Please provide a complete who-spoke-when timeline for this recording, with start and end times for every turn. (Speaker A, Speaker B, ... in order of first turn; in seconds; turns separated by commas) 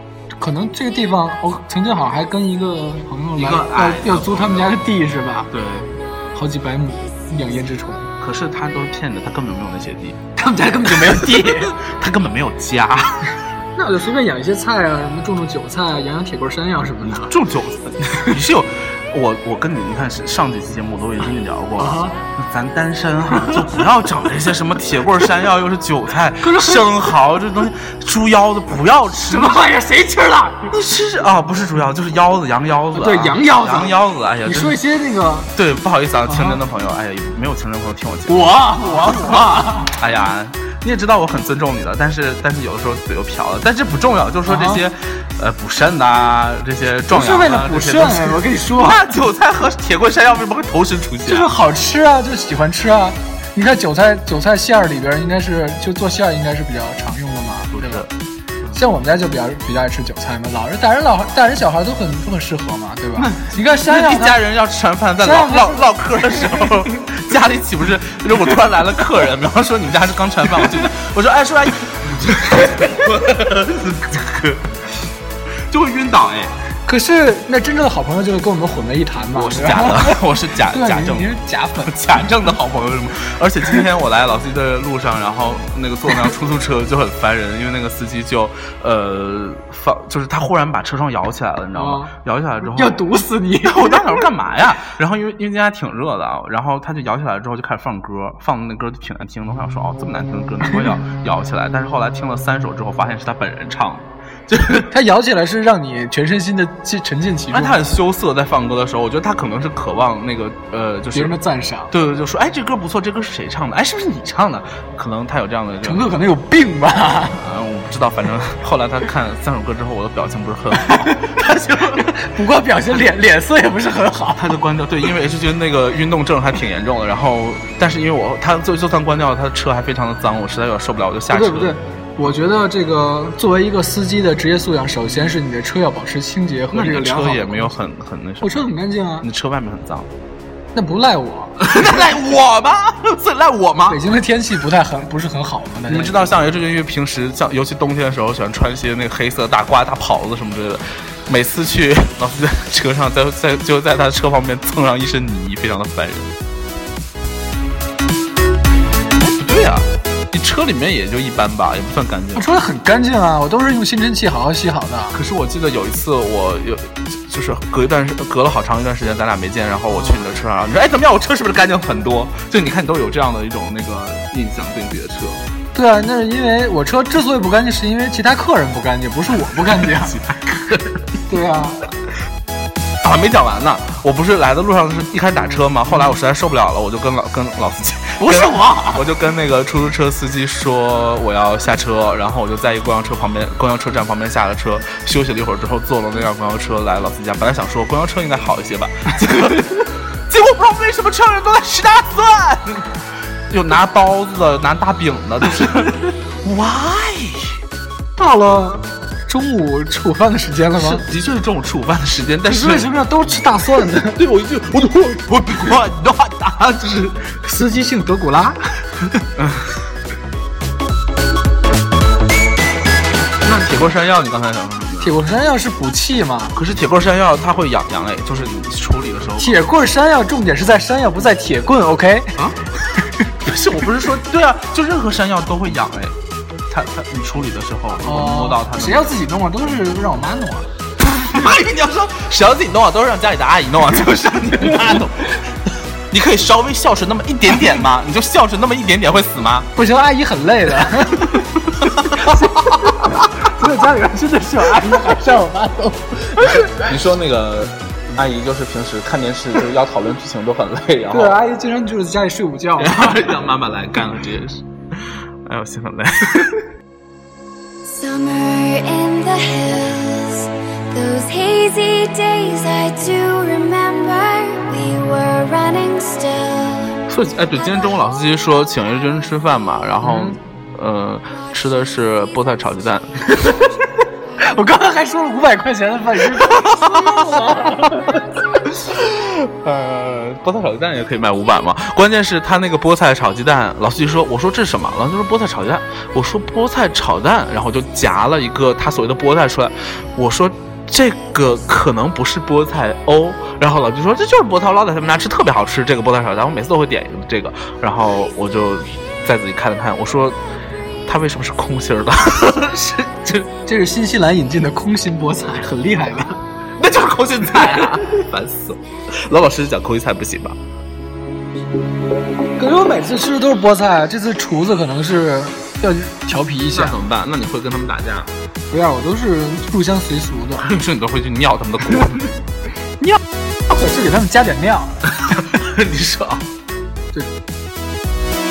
Speaker A: 0.4-5.5, Speaker B: 3.4-4.8, Speaker B: 5.5-6.0, Speaker A: 6.3-8.1, Speaker B: 8.2-10.2, Speaker A: 10.3-11.8, Speaker B: 10.9-13.3, Speaker A: 13.8-17.4, Speaker B: 17.0-29.6, Speaker A: 21.8-22.1, Speaker A: 26.4-27.1, Speaker A: 29.2-30.7, Speaker B: 30.7-34.8, Speaker A: 32.9-35.5, Speaker B: 35.5-51.5, Speaker A: 36.3-36.6, Speaker A: 38.3-39.9, Speaker A: 44.5-44.8, Speaker A: 47.1-49.0, Speaker A: 51.3-58.1, Speaker B: 57.7-58.1, Speaker A: 58.7-64.4, Speaker B: 63.2-74.8, Speaker A: 65.2-66.7, Speaker B: 75.7-76.6, Speaker A: 76.8-82.0, Speaker B: 79.3-93.0, Speaker A: 91.7-92.1, Speaker A: 92.6-94.3, Speaker B: 93.6-104.9, Speaker A: 104.9-107.8, Speaker B: 107.5-111.3, Speaker A: 111.1-111.9, Speaker B: 111.9-116.1, Speaker A: 115.8-117.4, Speaker B: 117.3-122.2, Speaker A: 120.8-121.4, Speaker A: 122.0-124.5, Speaker B: 124.4-131.8, Speaker A: 131.3-137.8, Speaker B: 136.7-140.1, Speaker A: 138.4-139.3, Speaker A: 140.7-141.8, Speaker B: 141.6-144.0, Speaker A: 143.9-146.4, Speaker B: 145.9-156.3, Speaker B: 159.2-162.5, Speaker A: 162.3-165.2, Speaker B: 165.1-175.4, Speaker A: 169.9-170.2, Speaker A: 175.7-180.2, Speaker B: 179.7-181.1, Speaker A: 181.3-181.8, Speaker B: 183.0-202.9, Speaker A: 188.2-189.1, Speaker B: 203.5-207.6, Speaker A: 208.2-211.1, Speaker B: 210.8-212.9, Speaker A: 212.5-214.2, Speaker B: 214.1-217.4, Speaker A: 217.4-218.6, Speaker B: 219.3-219.7, Speaker B: 223.4-225.2, Speaker A: 225.0-226.6, Speaker B: 226.5-229.6, Speaker A: 229.4-232.4, Speaker B: 232.4-232.7, Speaker B: 233.3-236.2, Speaker B: 236.7-239.1, Speaker A: 238.0-240.7, Speaker B: 241.1-245.3, Speaker B: 246.1-249.7, Speaker A: 249.7-256.9, Speaker B: 251.8-253.2, Speaker B: 256.4-261.4, Speaker A: 261.1-263.3, Speaker B: 262.8-266.6, Speaker C: 267.9-277.0, Speaker B: 277.1-283.6, Speaker A: 280.0-280.4, Speaker A: 283.3-283.7, Speaker A: 284.4-288.2, Speaker B: 286.3-288.1, Speaker B: 288.6-310.4, Speaker B: 311.1-313.5, Speaker A: 313.6-316.4, Speaker B: 316.8-320.6, Speaker A: 322.6-327.0, Speaker B: 326.7-328.3, Speaker A: 328.7-330.7, Speaker B: 330.6-332.3, Speaker A: 333.7-335.0, Speaker B: 335.2-336.4